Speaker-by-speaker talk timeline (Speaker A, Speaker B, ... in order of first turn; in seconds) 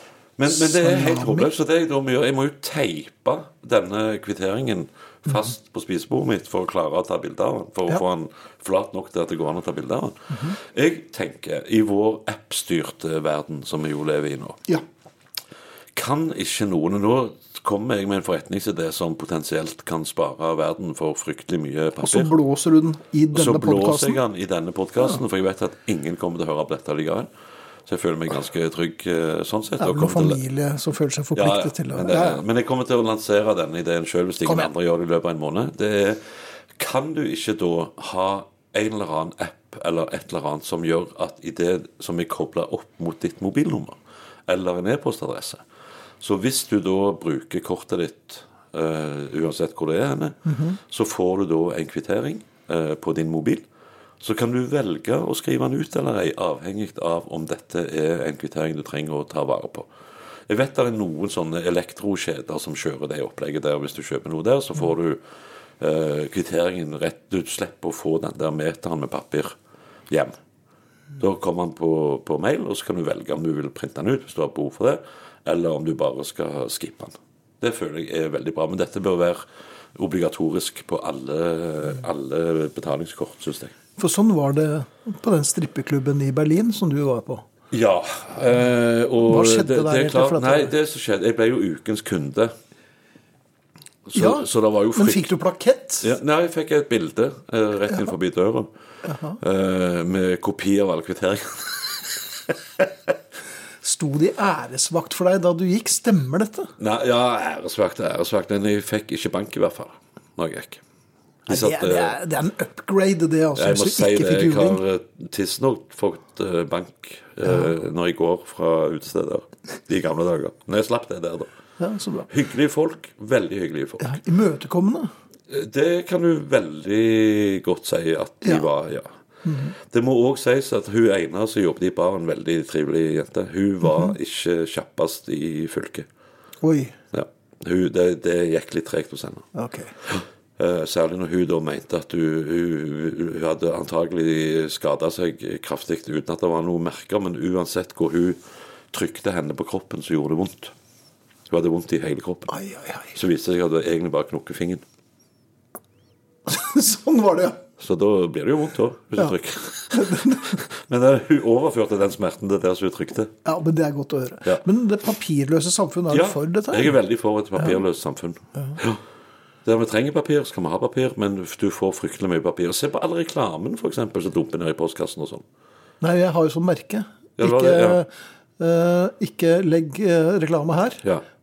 Speaker A: 0.4-14.7, 15.9-22.3, 23.3-27.3, 27.9-30.4, 31.3-45.6, 46.2-53.6, 54.2-59.9, 60.5-65.2, 65.8-69.5, 70.1-70.3, 71.2-79.4, 79.9-83.7, 87.7-92.5, 94.0-95.3, 96.0-98.7, 99.4-102.9, 106.8-110.8, 111.5-112.2, 113.5-121.5, 122.3-124.2, 125.5-129.1, 129.8-136.1, 137.1-139.5, 140.0-148.4, 148.9-150.7, 151.5-152.5, 153.1-154.8, 157.8-163.3, 166.1-169.0, 169.6-175.4, 177.4-178.0
Speaker B: 0.5-1.5, 22.0-24.2, 29.8-32.4, 50.5-50.8, 84.0-87.4, 89.2-90.7, 94.1-96.1, 99.0-99.4, 103.8-106.7, 111.5-114.8, 121.8-122.3, 124.0-125.1, 129.4-129.7, 136.6-136.9, 139.5-139.9, 152.5-153.1, 156.5-157.6, 159.9-160.6, 163.4-166.9, 176.0-181.0